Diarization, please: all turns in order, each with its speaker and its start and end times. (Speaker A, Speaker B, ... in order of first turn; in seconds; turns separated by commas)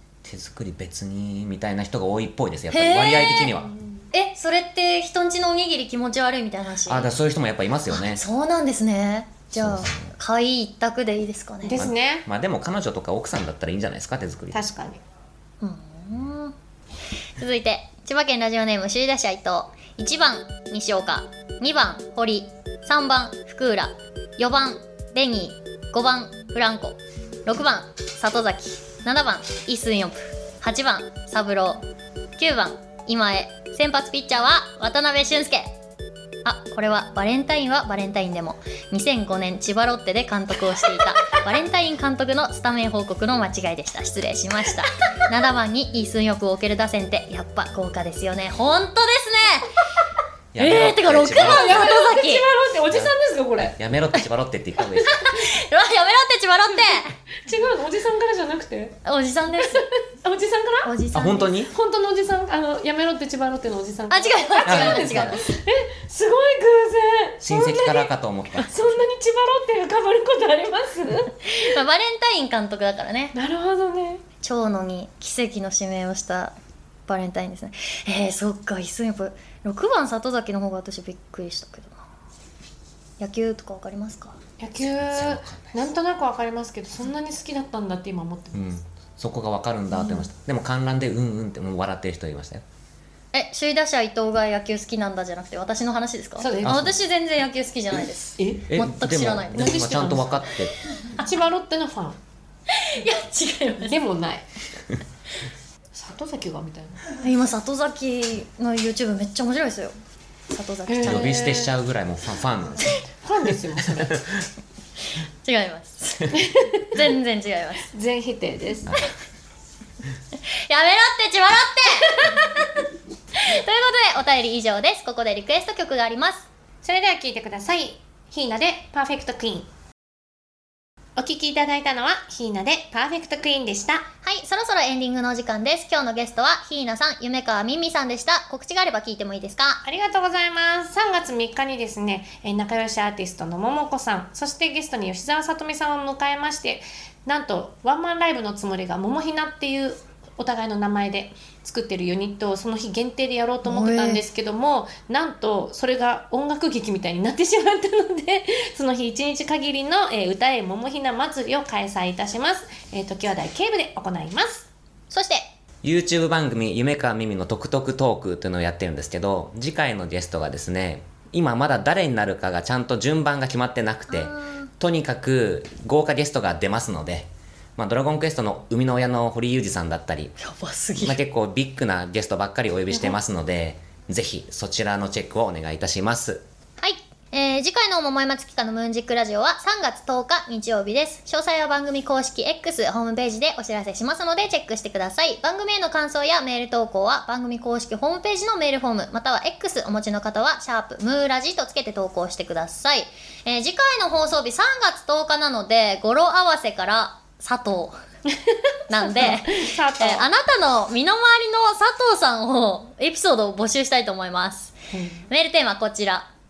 Speaker A: 0.2-3.7, Speaker B: 2.7-3.5, Speaker C: 3.4-4.1, Speaker B: 4.1-7.1, Speaker A: 6.8-8.2, Speaker B: 7.9-11.8, Speaker A: 9.6-10.1, Speaker C: 11.6-12.2, Speaker A: 11.7-14.6, Speaker C: 14.5-15.0, Speaker B: 15.6-16.5, Speaker B: 17.4-31.8, Speaker B: 32.4-35.7, Speaker B: 36.4-49.7, Speaker A: 50.5-51.9, Speaker B: 50.6-52.5, Speaker C: 50.9-53.8, Speaker A: 53.8-55.2, Speaker B: 55.0-57.1, Speaker C: 56.7-59.0, Speaker B: 59.0-59.9, Speaker C: 59.6-61.0, Speaker B: 60.8-61.5, Speaker A: 61.1-61.7, Speaker C: 61.7-71.8, Speaker B: 64.1-65.5, Speaker A: 64.7-65.4, Speaker A: 67.4-68.8, Speaker B: 71.4-73.3, Speaker C: 73.3-74.2, Speaker B: 74.4-76.5, Speaker B: 77.1-82.0, Speaker B: 83.2-84.4, Speaker C: 84.6-88.7, Speaker A: 85.0-85.9, Speaker A: 88.5-92.6, Speaker C: 89.9-90.3, Speaker B: 93.3-99.7, Speaker C: 96.4-96.9, Speaker A: 96.6-97.0, Speaker C: 98.4-98.7, Speaker A: 98.7-100.7, Speaker C: 99.5-102.2, Speaker B: 102.7-104.0, Speaker C: 103.8-104.5, Speaker C: 105.9-107.1, Speaker B: 107.2-109.9, Speaker B: 110.5-111.5, Speaker C: 110.9-111.7, Speaker A: 111.0-112.9, Speaker C: 113.2-114.2, Speaker B: 115.4-117.9, Speaker C: 116.3-117.0, Speaker C: 117.9-119.0, Speaker B: 120.7-122.5, Speaker B: 123.4-126.5, Speaker C: 126.8-129.7, Speaker C: 131.2-134.0, Speaker B: 134.2-139.8, Speaker C: 139.8-164.7, Speaker B: 153.6-154.2, Speaker B: 165.1-165.5, Speaker A: 165.8-180.3, Speaker B: 174.1-174.7, Speaker B: 180.4-181.2, Speaker A: 181.0-186.4, Speaker B: 186.8-208.0, Speaker C: 208.3-210.2, Speaker B: 208.9-214.7, Speaker C: 214.9-215.2, Speaker B: 215.3-216.3